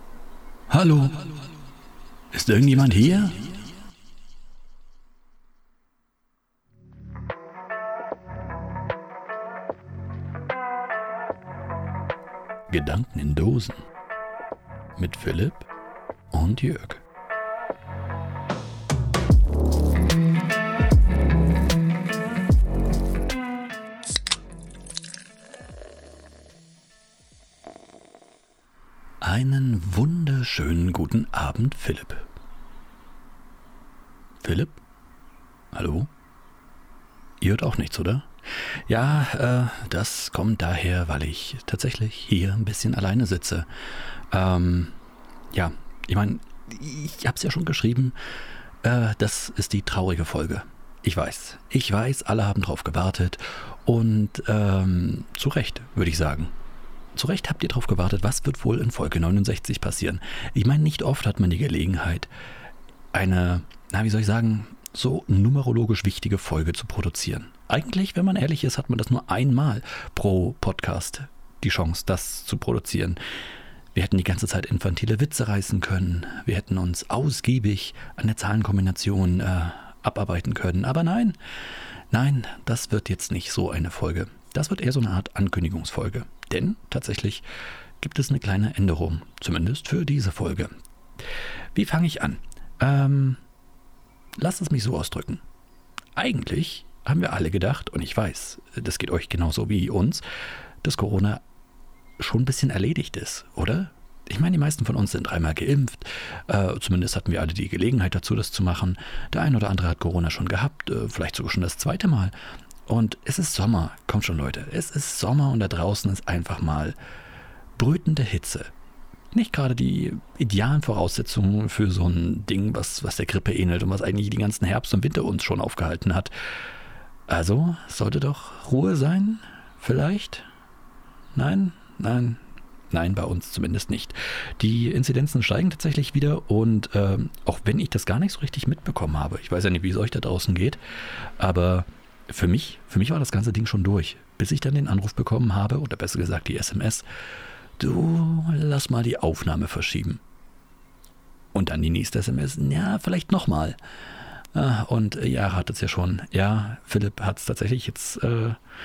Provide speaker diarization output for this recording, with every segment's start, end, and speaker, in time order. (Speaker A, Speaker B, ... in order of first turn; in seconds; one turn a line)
Speaker A: 0.7-1.3
Speaker A: 2.3-3.6
Speaker A: 12.7-13.8
Speaker A: 15.0-15.7
Speaker A: 16.3-17.0
Speaker A: 29.2-32.3
Speaker A: 34.4-34.8
Speaker A: 35.7-36.1
Speaker A: 37.4-43.7
Speaker A: 44.3-45.0
Speaker A: 45.5-48.2
Speaker A: 48.8-56.5
Speaker A: 57.1-62.3
Speaker A: 63.1-73.2
Speaker A: 73.9-81.4
Speaker A: 82.1-87.5
Speaker A: 88.0-90.7
Speaker A: 91.8-93.4
Speaker A: 94.4-95.4
Speaker A: 96.2-100.2
Speaker A: 100.8-101.4
Speaker A: 102.2-112.3
Speaker A: 112.9-117.0
Speaker A: 117.8-118.7
Speaker A: 119.3-126.3
Speaker A: 127.3-130.5
Speaker A: 131.3-140.8
Speaker A: 141.4-147.1
Speaker A: 147.8-150.2
Speaker A: 151.5-153.8
Speaker A: 154.5-158.6